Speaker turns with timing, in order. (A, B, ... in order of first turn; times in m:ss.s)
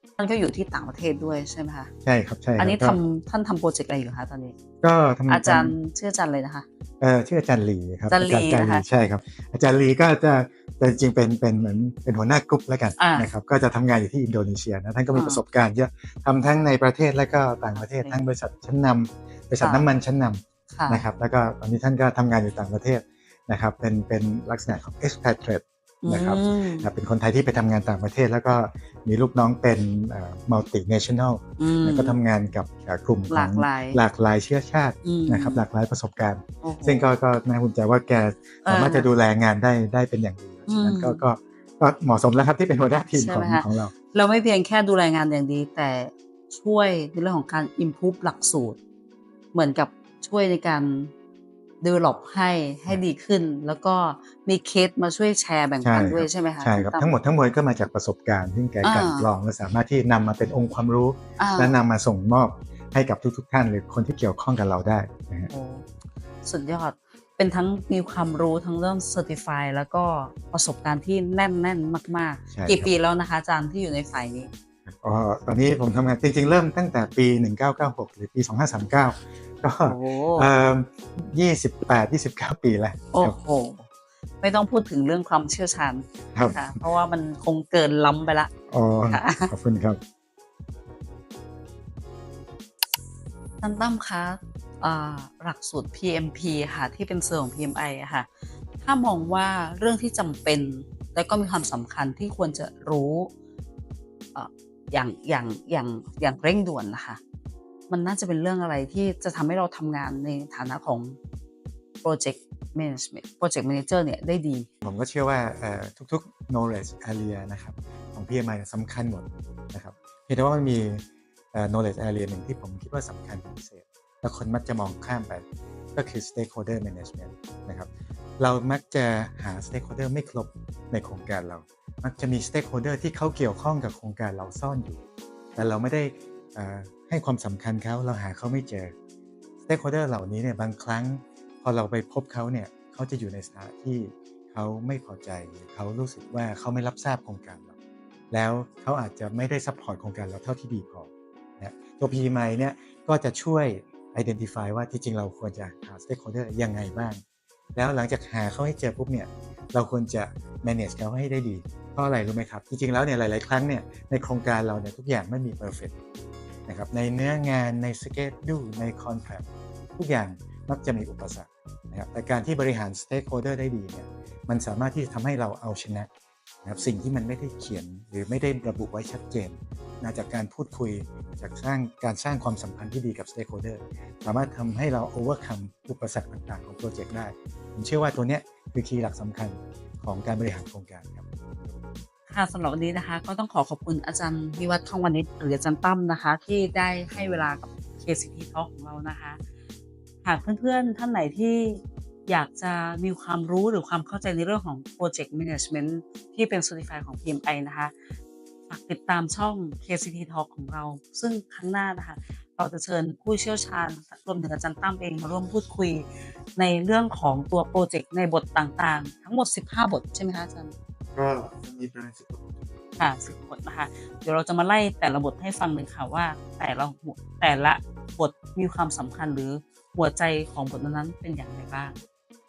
0:00.2-0:01.9 A
0:02.0-0:03.0 B
0:02.6-0:04.6 A
0:04.8-0:05.8 B
0:05.3-0:06.6 A
0:07.0-0:43.9 B
0:08.1-0:08.8 A
0:13.0-0:13.3 A
0:15.1-0:15.4 A
0:17.7-0:18.2 A
0:19.6-0:19.9 A
0:20.7-0:21.0 A
0:26.0-0:26.9 A
0:31.6-0:32.2 A
0:33.3-0:34.0 A
0:35.0-0:35.6 A
0:36.6-0:37.1 A
0:38.6-0:39.1 A
0:40.7-0:41.2 A
0:43.1-0:48.8 A
0:49.5-0:51.1 A
0:51.8-0:57.1 A
0:55.8-1:05.5 B
0:58.8-0:59.3 A
1:01.4-1:01.8 A
1:05.5-1:05.9 A
1:06.4-1:14.5 A
1:12.5-1:12.9 B
1:14.9-1:23.4 B
1:19.8-1:20.5 A
1:23.1-1:23.9 A
1:24.4-1:28.5 A
1:26.3-1:26.7 B
1:28.7-1:30.0 B
1:29.1-1:29.5 A
1:33.6-1:38.3 A
1:38.8-1:43.3 A
1:44.3-1:47.2 A
1:47.9-1:51.2 A
1:52.0-1:54.7 A
1:54.8-2:15.0 B
2:15.6-2:18.9 B
2:19.6-2:27.7 B
2:28.3-2:37.2 B
2:37.7-2:45.9 B
2:46.7-2:56.1 B
2:56.6-3:11.8 B
3:12.3-3:19.4 A
3:20.2-3:27.9 A
3:28.7-3:40.7 A
3:41.1-3:43.2 B
3:43.0-3:52.0 A